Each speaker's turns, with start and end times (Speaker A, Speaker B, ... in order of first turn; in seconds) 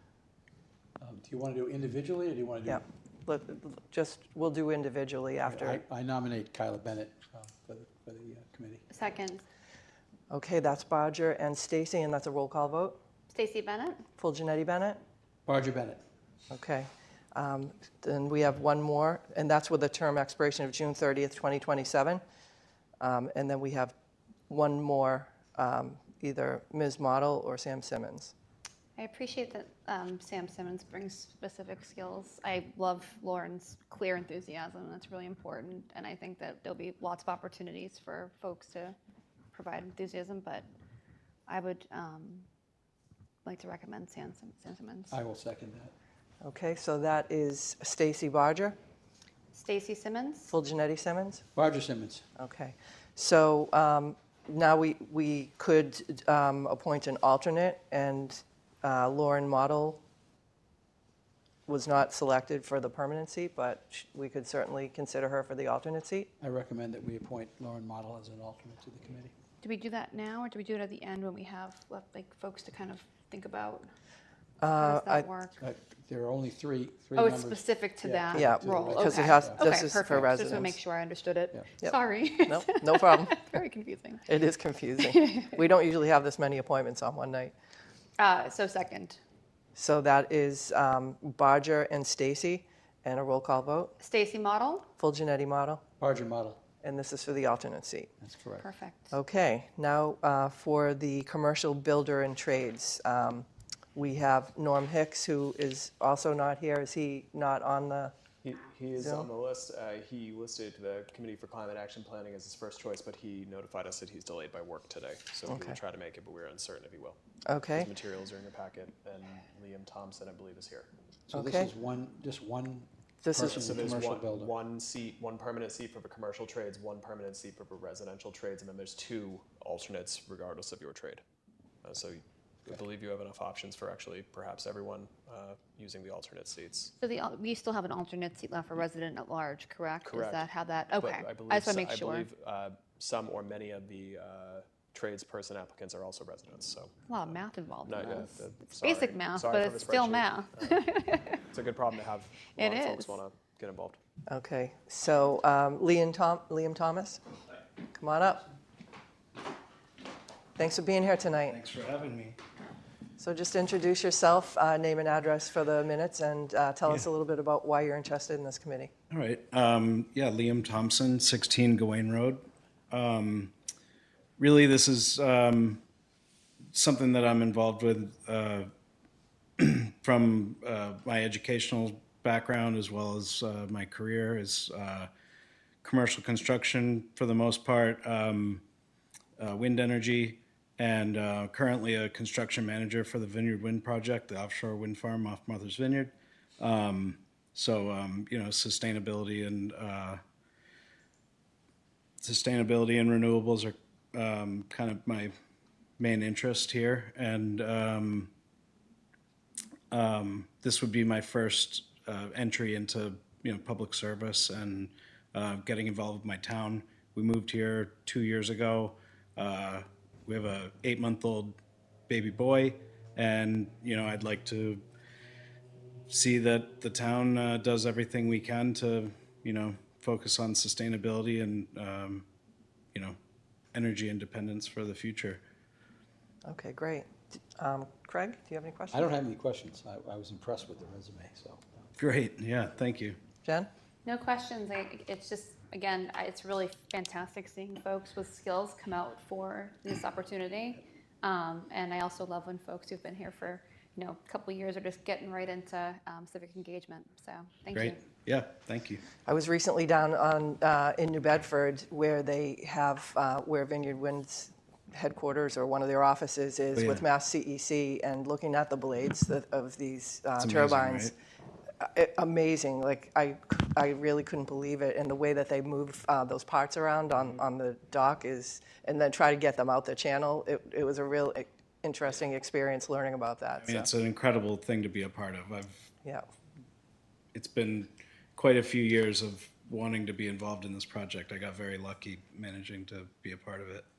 Speaker A: 1.0-2.8, 5.4-8.9, 15.5-16.0, 45.1-45.9, 51.5-52.3, 66.4-69.3, 75.6-79.7, 96.0-96.6, 98.2-98.7, 121.3-124.5, 238.9-241.6
Speaker B: 2.7-5.8, 10.3-13.0, 14.2-15.0, 16.5-22.2, 23.0-23.9, 24.5-28.3, 46.4-48.8, 50.5-51.4, 52.4-60.0, 61.7-66.3, 74.6-75.3, 78.3-80.8, 81.8-83.4, 84.3-87.5, 89.8-93.9, 95.0-95.8, 96.8-98.1, 99.1-108.1, 109.0-109.3, 115.5-115.8, 117.5-117.9, 121.3-121.7, 123.2-124.1, 154.3-157.2, 158.0-158.5, 160.6-161.6, 163.2-168.9, 236.4-239.1, 243.4-243.7, 259.2-271.1, 271.8-283.9
Speaker C: 8.9-9.4, 13.3-14.0, 29.0-39.0, 39.5-40.7, 41.5-42.5, 43.5-45.1, 49.5-50.5, 69.6-73.9, 74.8-75.6, 77.1-84.2, 85.0-85.6, 88.2-89.2, 94.0-94.9, 98.6-99.1, 137.0-142.3, 147.1-151.4, 152.6-153.2, 244.1-258.0
Speaker D: 108.4-117.2, 117.8-120.9, 123.4-131.2, 131.8-136.9, 140.0-150.8, 151.5-154.0
Speaker E: 161.5-162.4, 169.1-173.5, 174.4-175.8, 176.7-178.7, 179.6-185.1, 185.8-188.6, 189.4-200.2, 202.2-205.3, 206.0-208.3, 209.9-221.6, 222.1-224.8, 226.1-232.2, 233.7-235.4, 242.0-243.2, 257.7-259.0, 266.8-267.1, 270.4-271.1, 283.6-285.9, 287.3-293.9